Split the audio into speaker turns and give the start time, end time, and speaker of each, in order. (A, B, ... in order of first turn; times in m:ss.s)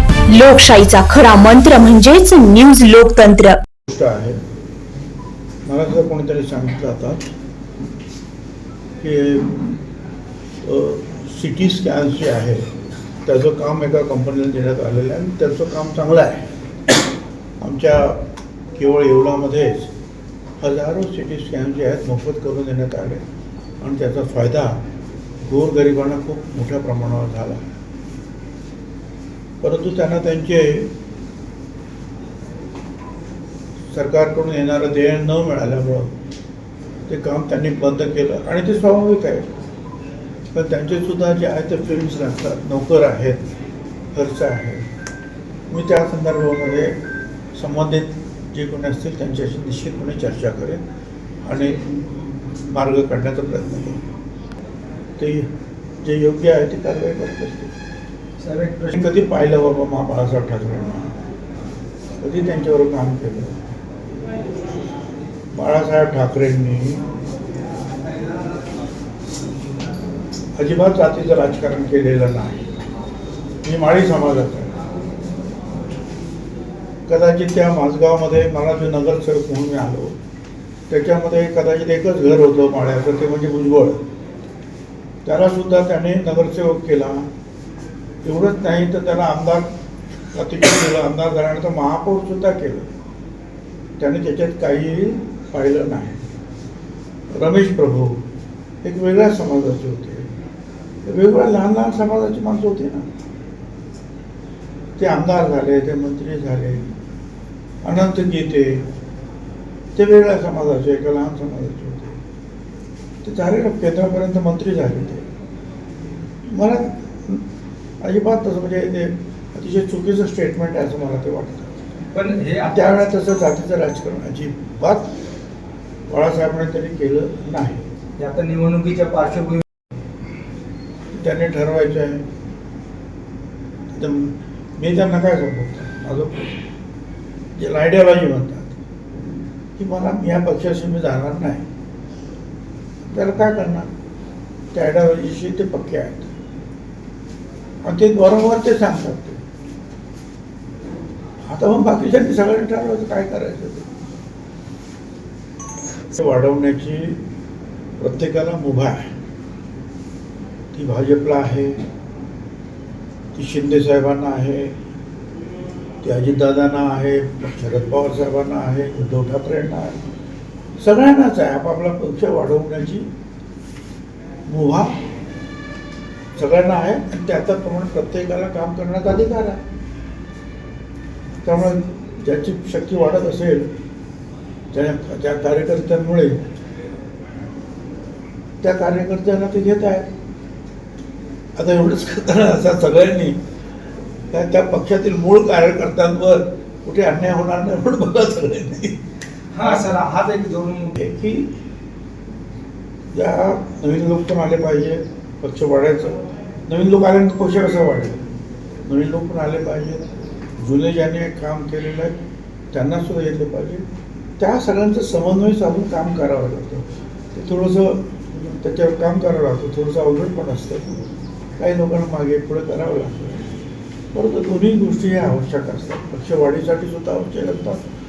0:00.3-0:03.6 A
0:03.9-0:04.4 B
0:05.6-0:07.3 B
0:09.0-0:09.5 B
0:10.6-0:12.7 B
0:13.2-0:16.4 B
0:17.6-0:19.9 B
0:20.6-0:23.2 B
0:23.8-0:24.8 B
0:25.4-0:27.6 B
0:29.6-0:30.9 B
0:33.9-0:36.1 B
0:37.1-0:39.5 B
0:40.5-0:43.4 B
0:44.1-0:44.8 B
0:45.7-0:47.0 B
0:47.5-0:50.8 B
0:51.4-0:51.8 B
0:52.6-0:54.0 B
0:55.2-0:55.5 B
0:56.0-0:57.7 B
0:58.4-0:58.9 C
0:58.9-1:01.1 B
1:02.2-1:03.6 B
1:05.5-1:07.0 B
1:10.5-1:12.6 B
1:13.6-1:14.7 B
1:17.1-1:20.2 B
1:20.9-1:24.0 B
1:25.2-1:27.3 B
1:28.2-1:29.7 B
1:30.3-1:32.9 B
1:34.0-1:36.2 B
1:37.3-1:38.2 B
1:38.8-1:40.3 B
1:41.0-1:43.0 B
1:45.0-1:46.8 B
1:47.8-1:48.8 B
1:49.9-1:52.2 B
1:53.2-1:55.2 B
1:56.5-1:57.4 B
1:58.0-2:01.7 B
2:02.1-2:02.8 C
2:02.6-2:05.1 B
2:06.1-2:07.9 B
2:08.2-2:09.6 C
2:11.1-2:12.2 B
2:13.9-2:16.6 B
2:17.5-2:18.8 B
2:19.8-2:21.6 B
2:23.1-2:23.9 B
2:24.7-2:26.3 B
2:27.8-2:29.4 B
2:31.5-2:33.9 B
2:36.1-2:37.2 B
2:38.0-2:39.1 B
2:40.7-2:41.8 B
2:43.3-2:44.7 B
2:46.0-2:50.0 B
2:50.8-2:53.1 B
2:54.5-2:55.0 B
2:56.4-2:59.6 B
3:01.4-3:03.7 B
3:04.7-3:06.4 B
3:08.6-3:10.1 B
3:11.6-3:13.4 B
3:14.3-3:19.0 B
3:19.5-3:20.9 C
3:19.6-3:20.0 B
3:20.9-3:21.5 B
3:23.1-3:28.2 B
3:28.8-3:30.0 B
3:30.6-3:32.1 B
3:32.7-3:33.8 B
3:34.4-3:41.0 B
3:41.6-3:43.5 B
3:44.1-3:47.8 B